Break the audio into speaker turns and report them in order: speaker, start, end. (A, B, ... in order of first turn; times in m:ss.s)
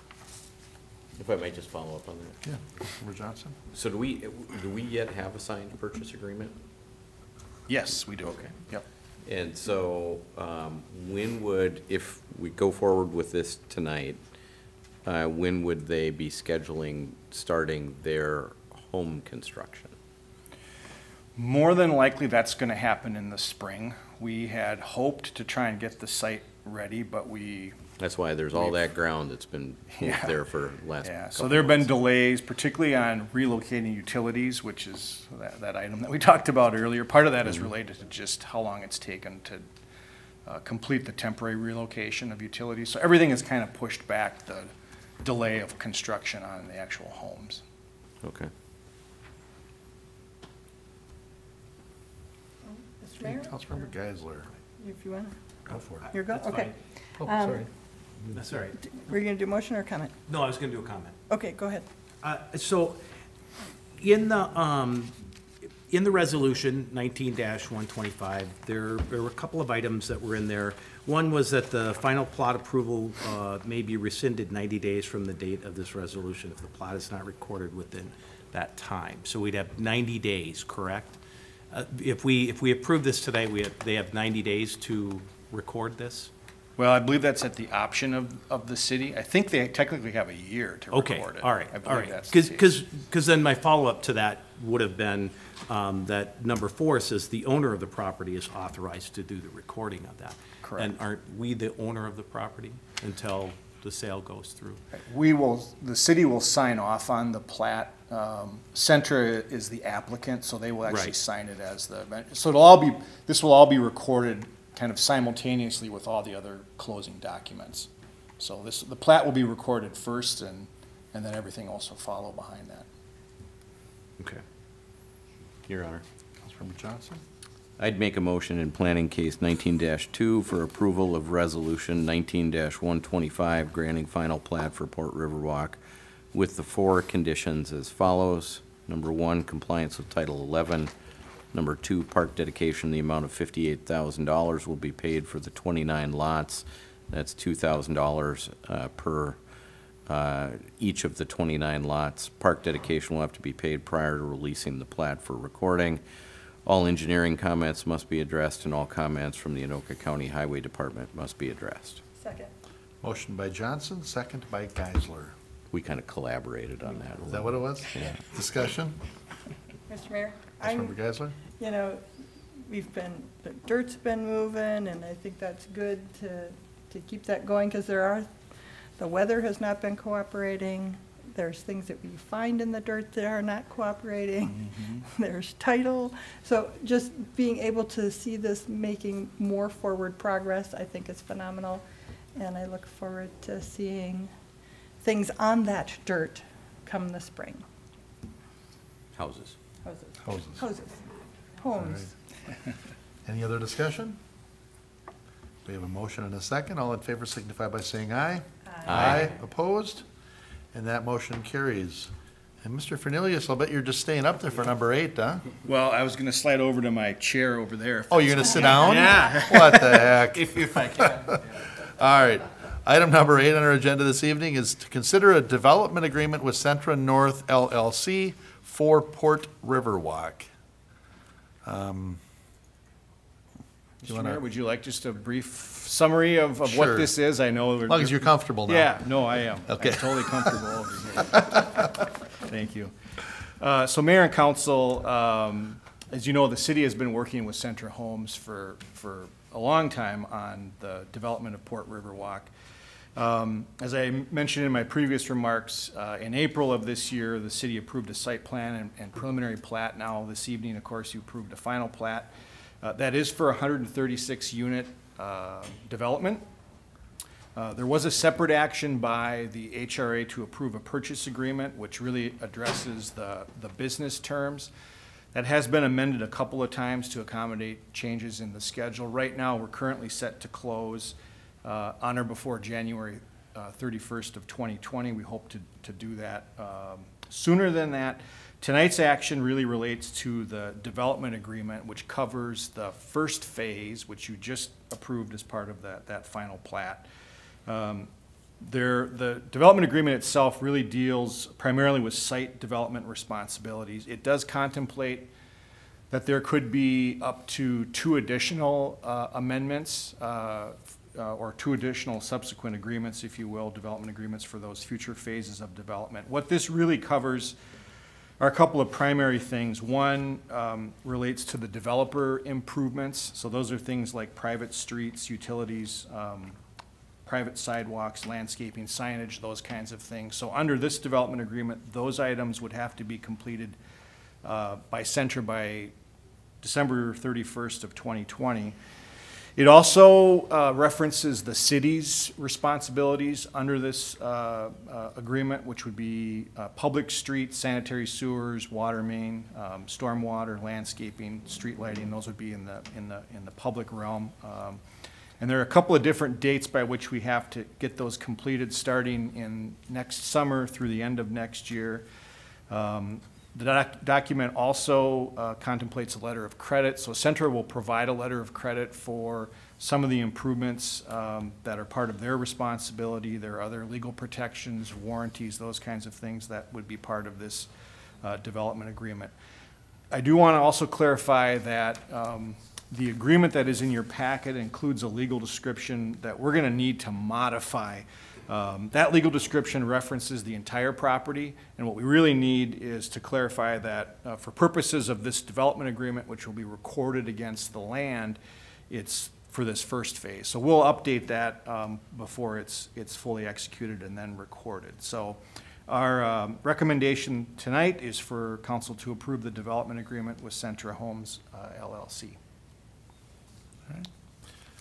0:01.2-0:02.4 A
0:02.4-0:03.6 B
0:03.7-0:06.6 A
0:07.7-0:08.8 C
0:09.2-0:14.2 A
0:15.0-0:20.0 A
0:21.4-0:27.8 C
0:28.0-0:31.9 A
0:28.5-0:28.9 C
0:30.0-0:30.4 C
0:31.0-0:39.7 C
0:40.4-0:47.6 C
0:48.2-0:48.5 A
0:52.7-0:53.8 D
0:53.2-0:54.5 B
0:54.8-0:55.4 D
0:56.0-0:56.8 E
0:56.1-0:57.6 D
0:57.2-0:57.7 B
0:58.3-0:58.8 E
0:58.8-1:00.1 D
1:00.3-1:01.2 E
1:01.3-1:01.8 D
1:02.2-1:03.0 E
1:04.0-1:05.2 E
1:05.8-1:21.2 E
1:21.7-1:26.3 E
1:26.8-1:32.8 C
1:30.9-1:44.8 E
1:40.6-1:40.9 C
1:44.9-2:02.9 C
1:50.9-1:51.2 E
2:05.7-2:06.0 E
2:06.4-2:07.2 B
2:07.8-2:15.8 A
2:16.3-2:20.9 A
2:21.5-2:29.4 A
2:30.1-2:36.0 A
2:36.6-2:42.0 A
2:42.2-2:42.5 D
2:43.0-2:45.4 B
2:45.7-2:48.2 A
2:47.3-2:49.0 B
2:49.9-2:51.0 D
2:50.6-2:51.4 B
2:51.5-2:52.0 D
2:52.6-2:58.4 D
2:59.0-3:14.3 D
3:04.5-3:05.1 C
3:15.0-3:17.6 D
3:19.2-3:19.5 A
3:19.9-3:21.0 D
3:20.2-3:20.6 B
3:21.6-3:22.1 D
3:21.8-3:22.1 B
3:23.2-3:24.2 B
3:25.6-3:30.0 B
3:28.9-3:29.4 A
3:30.7-3:32.1 B
3:32.6-3:35.5 B
3:35.6-3:41.3 C
3:38.1-3:50.5 B
3:51.6-3:52.2 B
3:54.0-4:01.9 C
3:54.1-3:54.4 B
3:56.6-3:57.1 B
3:57.9-3:59.0 B
3:59.7-4:00.6 B
4:02.5-4:02.9 C
4:03.5-4:12.5 C
4:13.2-4:26.4 C
4:27.6-4:34.7 C
4:35.3-4:57.1 C
4:57.7-4:58.1 C
4:58.6-5:05.3 C
5:06.1-5:17.6 C
5:18.4-5:26.6 C
5:27.2-5:33.8 C
5:34.4-5:35.9 C
5:36.6-5:38.8 C
5:39.6-5:54.8 C
5:55.4-6:02.1 C
6:02.7-6:17.7 C
6:18.2-6:19.3 C
6:20.1-6:38.4 C
6:38.9-6:52.4 C